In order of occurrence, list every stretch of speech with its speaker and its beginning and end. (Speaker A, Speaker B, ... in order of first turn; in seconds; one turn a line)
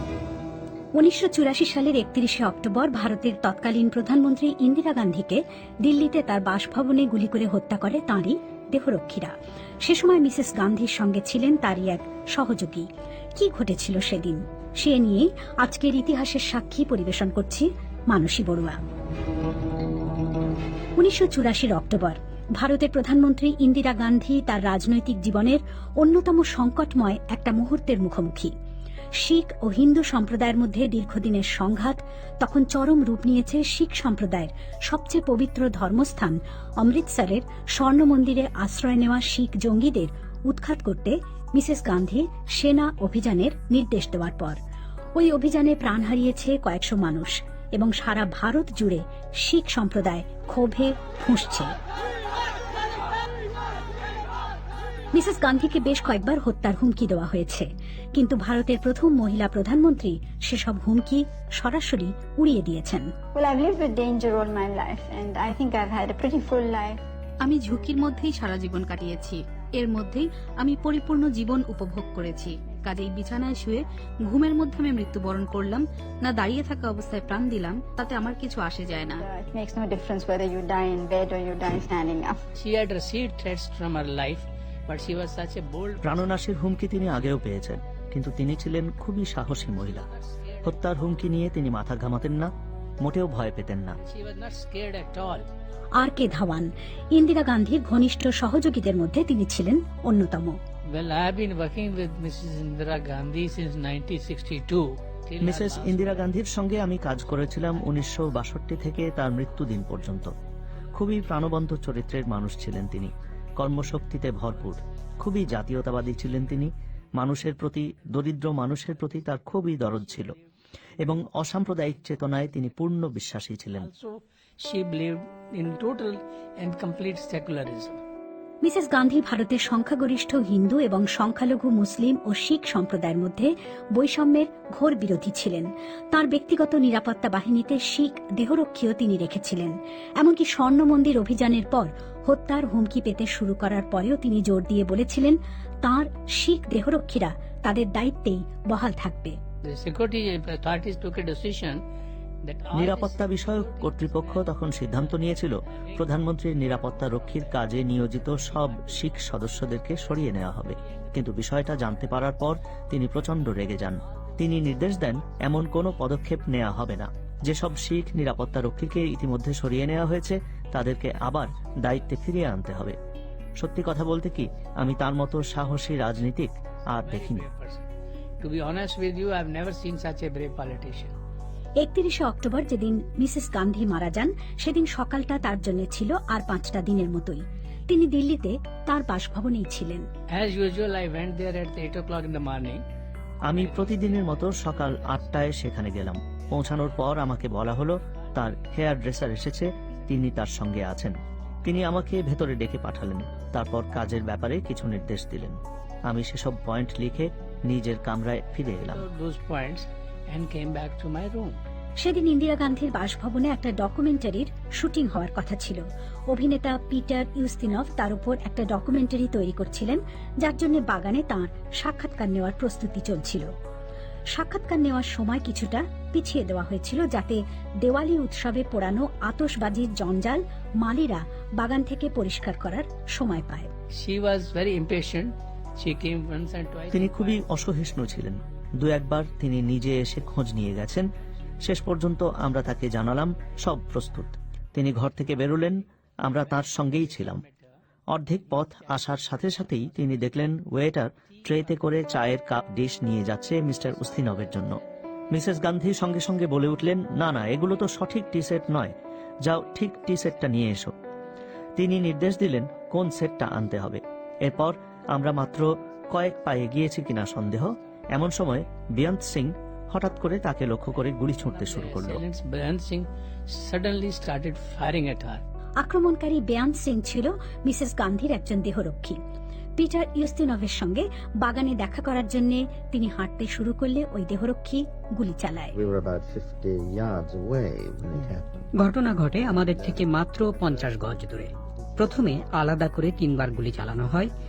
Speaker A: 0.9-9.3
Speaker A: 9.8-18.8
Speaker A: 21.0-28.5
Speaker A: 29.2-44.6
Speaker A: 45.2-51.7
Speaker A: 55.1-63.1
Speaker B: 63.3-67.0
Speaker C: 67.4-79.2
Speaker B: 79.2-82.4
Speaker D: 82.5-86.3
Speaker E: 86.0-90.0
Speaker D: 89.6-91.2
Speaker E: 90.6-94.0
Speaker D: 94.0-95.5
Speaker A: 96.0-100.6
Speaker D: 100.9-106.3
Speaker E: 105.4-110.3
Speaker E: 111.0-120.3
Speaker E: 121.0-123.9
Speaker D: 123.8-128.0
Speaker A: 128.6-149.4
Speaker D: 149.7-151.8
Speaker D: 152.4-156.2
Speaker E: 152.7-173.0
Speaker D: 156.8-159.2
Speaker E: 173.6-177.4
Speaker D: 177.0-177.8
Speaker D: 178.4-181.1
Speaker A: 181.8-190.1
Speaker D: 190.3-192.8
Speaker E: 193.5-209.0
Speaker D: 193.5-195.4
Speaker D: 208.7-211.6
Speaker A: 212.0-223.5
Speaker A: 224.3-233.7
Speaker D: 234.0-237.4
Speaker E: 236.9-241.1
Speaker E: 241.6-247.4
Speaker D: 246.5-247.6
Speaker E: 248.1-254.8
Speaker D: 248.7-249.9
Speaker D: 251.6-252.3
Speaker D: 253.7-254.8
Speaker E: 255.3-258.9
Speaker E: 259.4-260.9
Speaker E: 261.8-272.2
Speaker D: 271.5-275.4
Speaker A: 275.8-279.2
Speaker A: 279.8-285.7
Speaker F: 285.7-288.6
Speaker G: 288.7-294.3